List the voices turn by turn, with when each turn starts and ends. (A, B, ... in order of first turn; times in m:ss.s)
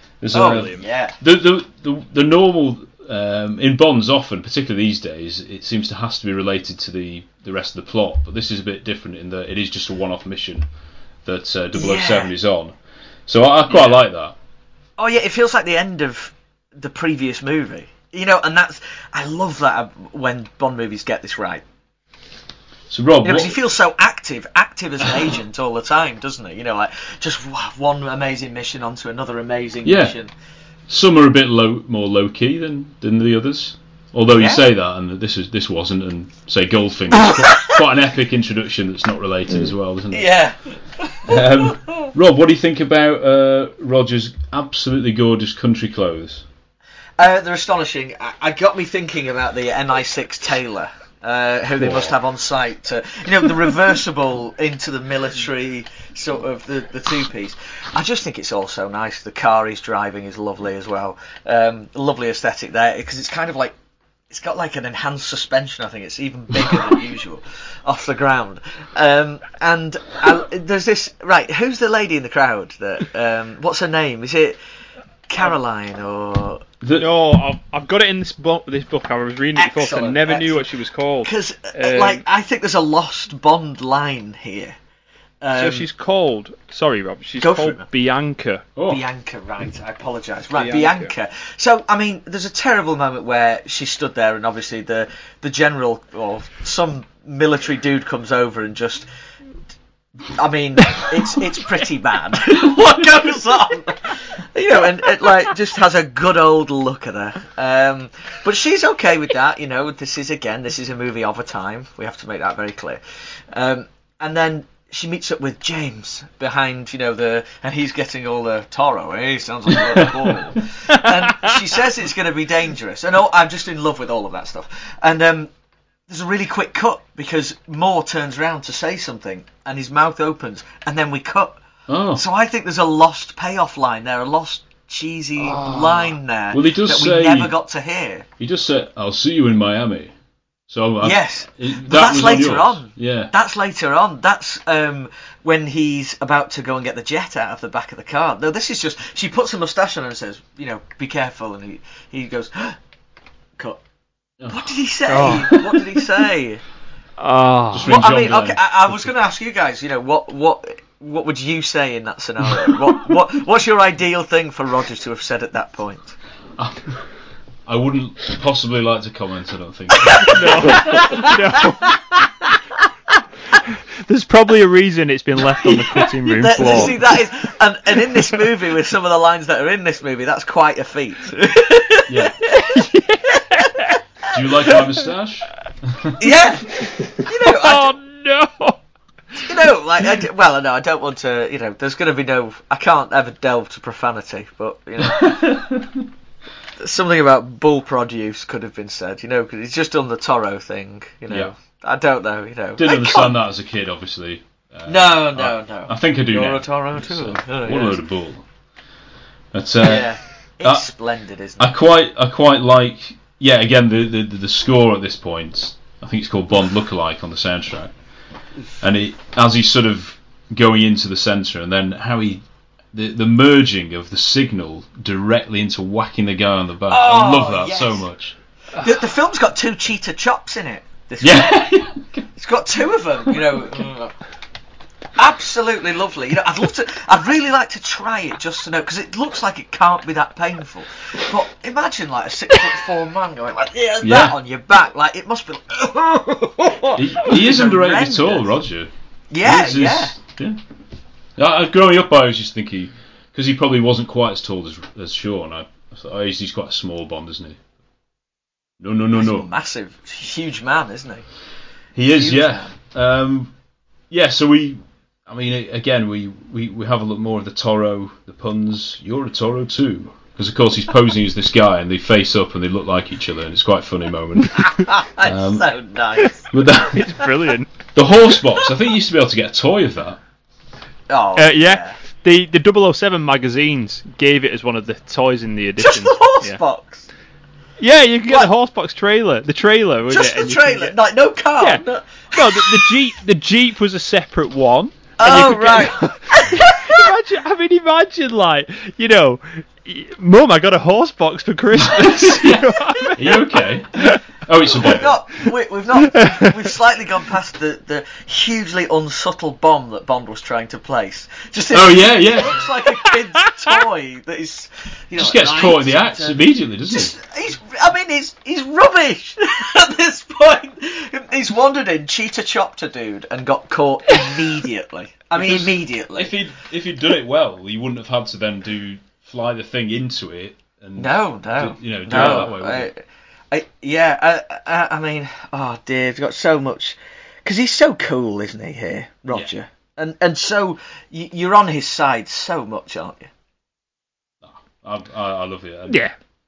0:00.2-0:10.7 A
0:00.3-0:01.1 B
0:00.4-0:00.8 C
0:11.2-0:12.7 A
0:11.7-0:12.3 B
0:13.3-0:14.4 A
0:13.7-0:14.0 B
0:15.0-0:21.6 B
0:22.9-0:23.6 A
0:23.2-0:30.3 B
0:29.8-0:30.2 A
0:30.9-0:40.4 A
0:34.3-0:34.6 B
0:37.4-0:37.7 B
0:40.1-0:42.1 B
0:41.2-0:46.4 A
0:47.2-1:03.7 B
1:04.3-1:14.6 B
1:15.3-1:16.6 B
1:16.8-1:17.2 A
1:17.0-1:22.2 C
1:19.6-1:20.7 B
1:21.2-1:24.8 B
1:25.4-1:25.9 B
1:25.5-1:28.6 C
1:27.4-1:27.8 B
1:28.8-1:29.0 A
1:28.8-1:39.1 B
1:40.3-1:53.0 B
1:53.5-2:05.5 B
2:06.1-2:11.6 B
2:11.9-2:12.2 A
2:12.1-2:18.2 B
2:16.5-2:17.5 A
2:18.4-2:20.1 A
2:20.7-2:23.3 A
2:21.0-2:32.8 B
2:34.4-2:35.8 A
2:34.5-2:36.6 B
2:35.1-2:35.5 C
2:37.2-2:37.9 C
2:37.7-2:38.9 A
2:37.8-2:46.2 B
2:46.6-2:47.1 A
2:47.6-2:51.0 A
2:50.0-2:51.3 B
2:50.3-2:51.9 C
2:54.0-2:57.0 C
2:55.6-3:02.6 B
2:56.6-2:56.9 A
3:02.1-3:02.3 A
3:02.6-3:03.8 C
3:04.3-3:06.2 A
3:06.2-3:08.0 B
3:07.4-3:08.8 C
3:09.4-3:15.5 B
3:15.1-3:15.9 A
3:16.8-3:23.4 B
3:22.8-3:28.4 A
3:24.9-3:28.0 B
3:29.5-3:30.9 A
3:29.8-3:31.7 B
3:31.6-3:37.9 A
3:38.8-3:42.4 A
3:42.9-3:48.4 A
3:46.9-3:48.0 B
3:48.8-3:51.6 B
3:51.2-3:52.3 A
3:52.4-3:54.1 B
3:55.2-4:08.5 B
4:04.0-4:04.4 A
4:07.0-4:08.9 A
4:09.3-4:10.1 B
4:09.4-4:10.6 A
4:11.4-4:17.6 A
4:18.8-4:19.5 A
4:19.1-4:21.2 B
4:21.9-4:23.5 A
4:22.1-4:22.7 B
4:24.1-4:35.8 A
4:34.8-4:36.4 B
4:36.5-4:37.2 A
4:36.9-4:37.7 C
4:37.9-4:40.2 A
4:41.1-4:42.0 B
4:41.4-4:46.6 C
4:45.8-4:47.1 B
4:47.8-4:50.9 C
4:50.1-4:52.9 B
4:51.6-5:03.4 C
4:55.2-4:57.0 B
5:01.8-5:05.2 A
5:04.8-5:26.3 B
5:06.1-5:06.6 C
5:11.7-5:12.7 A
5:15.2-5:17.1 A
5:25.4-5:32.9 A
5:31.0-5:43.3 B
5:32.1-5:32.5 C
5:44.4-5:46.0 A
5:45.9-5:46.1 C